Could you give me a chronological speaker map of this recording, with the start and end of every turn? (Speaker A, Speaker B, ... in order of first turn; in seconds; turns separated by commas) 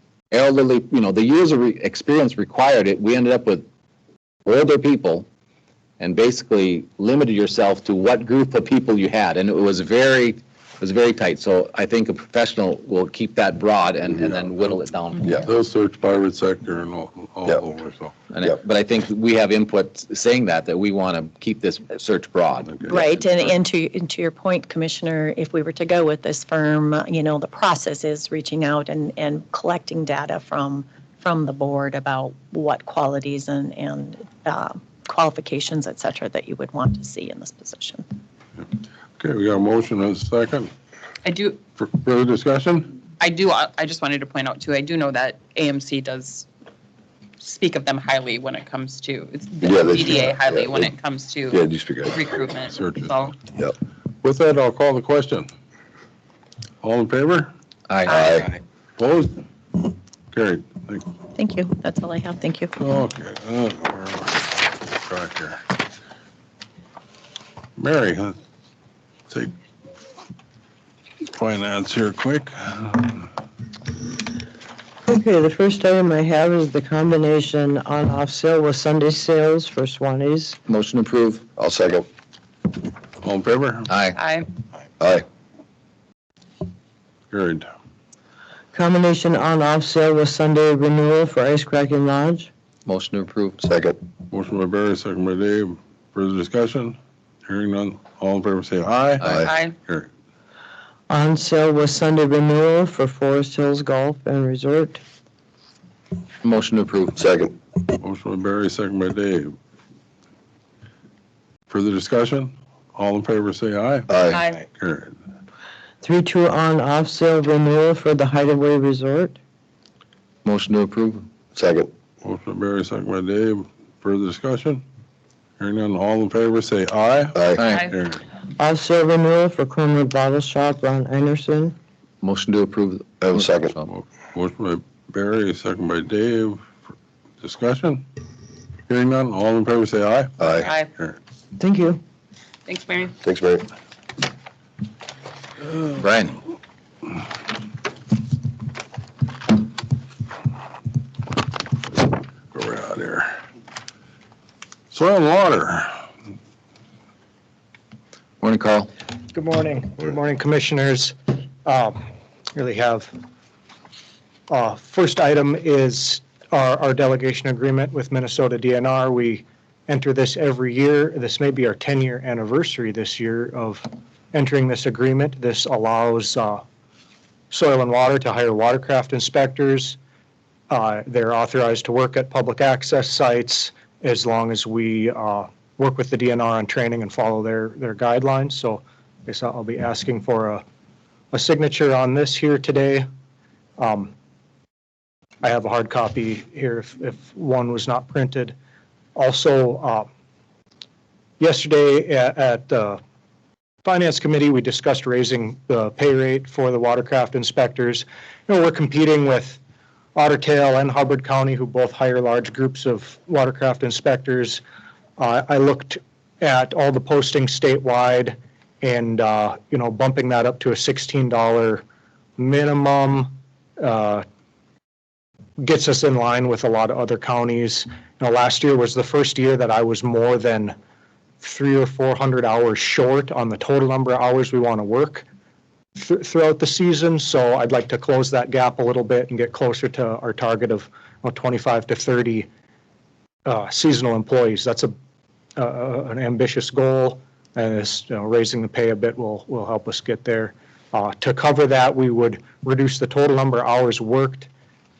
Speaker A: 0.3-3.6, Speaker A: 4.5-5.3, Speaker A: 6.0-15.4, Speaker B: 15.4-18.1, Speaker A: 18.3-22.8, Speaker B: 22.7-23.1, Speaker C: 22.9-38.0, Speaker B: 39.2-40.7, Speaker D: 41.2-41.6, Speaker B: 41.8-43.0, Speaker D: 43.2-46.5, Speaker D: 47.4-53.3, Speaker E: 49.6-50.9, Speaker E: 51.5-52.2, Speaker B: 52.7-53.3, Speaker B: 54.2-55.5, Speaker B: 56.8-57.5, Speaker A: 57.9-58.2, Speaker D: 58.1-58.6, Speaker E: 58.1-58.5, Speaker B: 59.0-61.1, Speaker C: 61.4-62.8, Speaker B: 62.8-65.7, Speaker B: 67.8-68.4, Speaker B: 71.3-73.3, Speaker F: 75.1-80.6, Speaker A: 80.7-81.5, Speaker E: 81.6-82.1, Speaker B: 83.2-83.9, Speaker A: 83.9-84.2, Speaker D: 84.1-84.5, Speaker E: 85.0-85.2, Speaker B: 87.3-87.7, Speaker F: 88.7-92.5, Speaker A: 92.9-93.7, Speaker E: 93.6-94.0, Speaker B: 94.3-99.3, Speaker A: 99.2-99.5, Speaker E: 99.2-99.5, Speaker D: 99.4-99.8, Speaker B: 99.8-100.1, Speaker F: 101.1-105.0, Speaker A: 106.4-107.2, Speaker E: 107.2-107.5, Speaker B: 108.0-109.5, Speaker B: 111.7-114.2, Speaker E: 114.1-114.4, Speaker D: 114.3-114.6, Speaker B: 114.7-115.2, Speaker F: 116.0-119.4, Speaker A: 120.5-121.3, Speaker E: 121.5-121.9, Speaker B: 122.2-124.8, Speaker B: 125.6-128.2, Speaker E: 127.3-127.6, Speaker A: 127.6-127.8, Speaker D: 127.7-127.9, Speaker F: 128.6-131.8, Speaker A: 132.2-133.9, Speaker E: 133.2-133.7, Speaker B: 133.9-136.7, Speaker B: 137.4-138.0, Speaker B: 138.9-140.4, Speaker E: 140.4-140.7, Speaker D: 140.4-140.9, Speaker F: 141.6-142.0, Speaker D: 142.7-143.2, Speaker E: 143.2-143.7, Speaker A: 146.0-146.4, Speaker B: 152.5-153.4, Speaker B: 154.9-156.1, Speaker A: 158.4-158.9, Speaker G: 159.3-162.0, Speaker G: 162.6-163.1, Speaker G: 164.5-176.6, Speaker G: 177.5-180.0, Speaker G: 180.7-190.6, Speaker G: 191.3-193.1, Speaker G: 193.8-194.1, Speaker G: 195.4-198.6, Speaker G: 199.2-200.1, Speaker G: 201.4-203.0, Speaker G: 203.8-209.6, Speaker G: 210.2-214.6, Speaker G: 215.2-221.8, Speaker G: 222.4-224.2, Speaker G: 225.6-230.8, Speaker G: 231.4-235.2, Speaker G: 236.0-242.5, Speaker G: 243.5-244.9, Speaker G: 245.6-254.5